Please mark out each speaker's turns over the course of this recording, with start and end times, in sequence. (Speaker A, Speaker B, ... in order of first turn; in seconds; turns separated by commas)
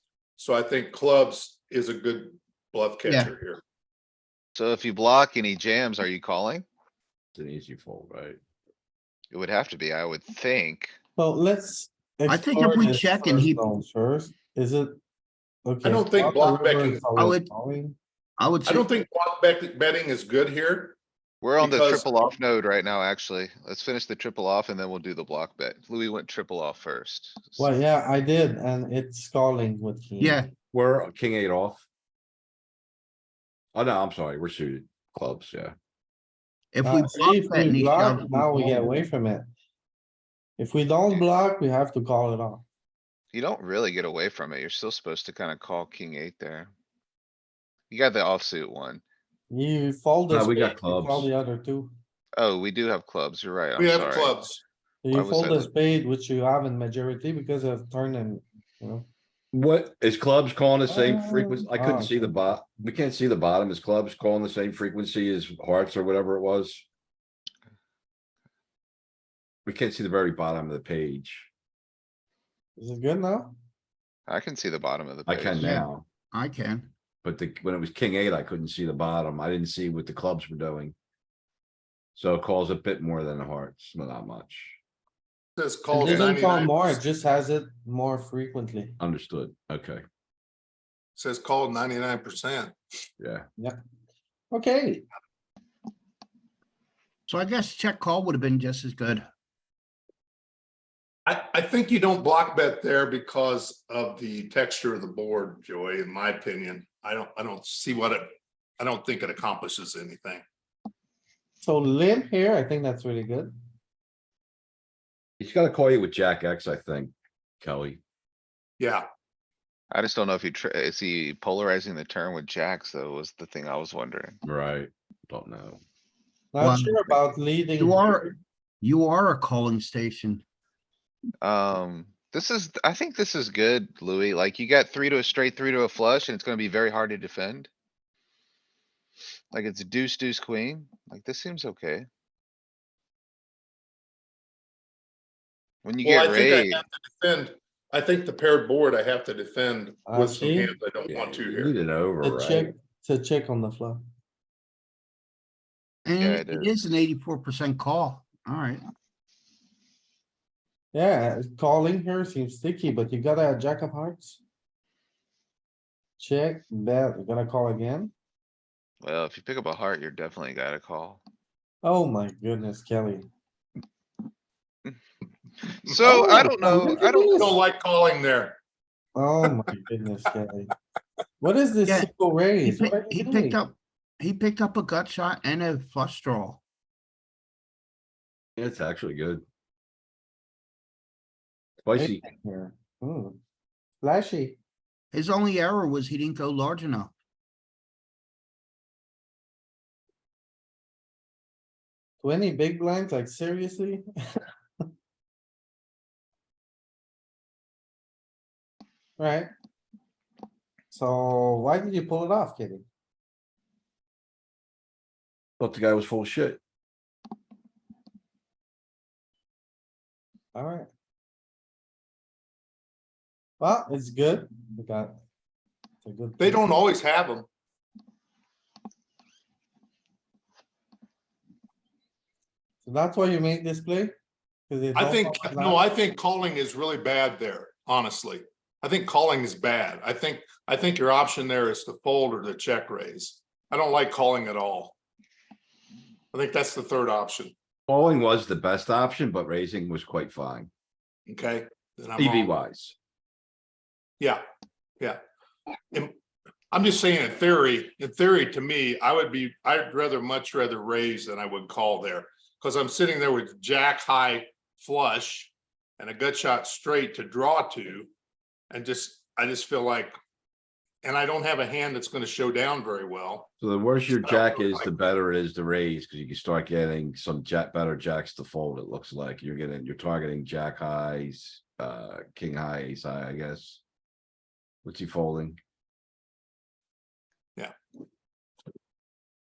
Speaker A: 0.4-3.6, Speaker B: 3.0-3.3, Speaker C: 4.5-6.6, Speaker D: 7.3-8.4, Speaker C: 9.3-10.9, Speaker E: 11.2-15.0, Speaker B: 12.3-13.6, Speaker E: 15.6-18.0, Speaker A: 15.8-17.1, Speaker B: 17.1-17.5, Speaker B: 18.4-18.9, Speaker A: 18.6-21.0, Speaker C: 21.4-27.7, Speaker A: 21.6-22.1, Speaker E: 27.6-30.4, Speaker B: 30.2-30.5, Speaker D: 30.7-31.9, Speaker D: 33.7-35.7, Speaker B: 36.7-39.0, Speaker E: 36.8-39.5, Speaker E: 40.6-42.6, Speaker C: 43.3-46.7, Speaker C: 47.9-49.0, Speaker E: 49.5-51.9, Speaker D: 50.3-51.3, Speaker C: 52.4-54.4, Speaker A: 53.8-54.6, Speaker E: 55.0-59.1, Speaker C: 55.1-55.7, Speaker D: 59.5-66.8, Speaker E: 60.9-62.6, Speaker D: 69.7-71.5, Speaker E: 72.8-73.5, Speaker C: 74.3-75.7, Speaker D: 75.3-76.0, Speaker B: 75.6-76.9, Speaker D: 77.2-80.9, Speaker D: 82.1-84.8, Speaker A: 85.6-87.0, Speaker E: 85.9-89.0, Speaker D: 89.0-90.0, Speaker A: 91.2-92.8, Speaker D: 93.2-93.5, Speaker E: 94.5-95.1, Speaker B: 97.3-99.3, Speaker A: 101.2-110.4, Speaker E: 111.6-113.5, Speaker D: 115.4-118.0, Speaker A: 118.8-119.0, Speaker C: 119.9-124.4, Speaker D: 124.4-125.8, Speaker E: 126.5-128.3, Speaker B: 126.6-127.2, Speaker B: 127.8-130.4, Speaker C: 131.4-137.7, Speaker C: 139.5-142.1, Speaker C: 145.8-146.8, Speaker A: 146.0-151.7, Speaker E: 150.1-150.7, Speaker D: 151.1-152.7, Speaker E: 152.2-154.0, Speaker B: 156.0-158.8, Speaker C: 156.2-156.7, Speaker E: 160.9-164.4, Speaker E: 166.2-168.1, Speaker C: 169.0-171.2, Speaker E: 171.8-173.3, Speaker C: 175.6-177.5, Speaker E: 176.4-177.6, Speaker B: 177.1-177.4, Speaker A: 177.3-178.6, Speaker E: 179.1-180.7, Speaker E: 181.4-183.6, Speaker B: 182.6-186.6, Speaker D: 188.6-189.4, Speaker D: 191.8-192.2, Speaker E: 191.9-193.4, Speaker E: 194.0-194.6, Speaker B: 195.1-197.1, Speaker E: 202.2-204.0, Speaker E: 209.2-209.5, Speaker E: 210.9-212.8, Speaker D: 215.6-216.6, Speaker E: 220.5-220.9, Speaker E: 223.6-225.2, Speaker E: 226.0-226.7, Speaker A: 226.4-227.5, Speaker E: 232.8-234.1, Speaker E: 234.7-235.8, Speaker A: 234.9-244.9, Speaker A: 246.3-247.5, Speaker D: 247.9-250.7, Speaker A: 251.3-252.5, Speaker D: 252.2-252.9, Speaker A: 256.7-268.1, Speaker A: 268.7-270.1, Speaker A: 271.0-273.5, Speaker D: 273.6-283.8, Speaker A: 274.2-274.9, Speaker D: 284.8-285.6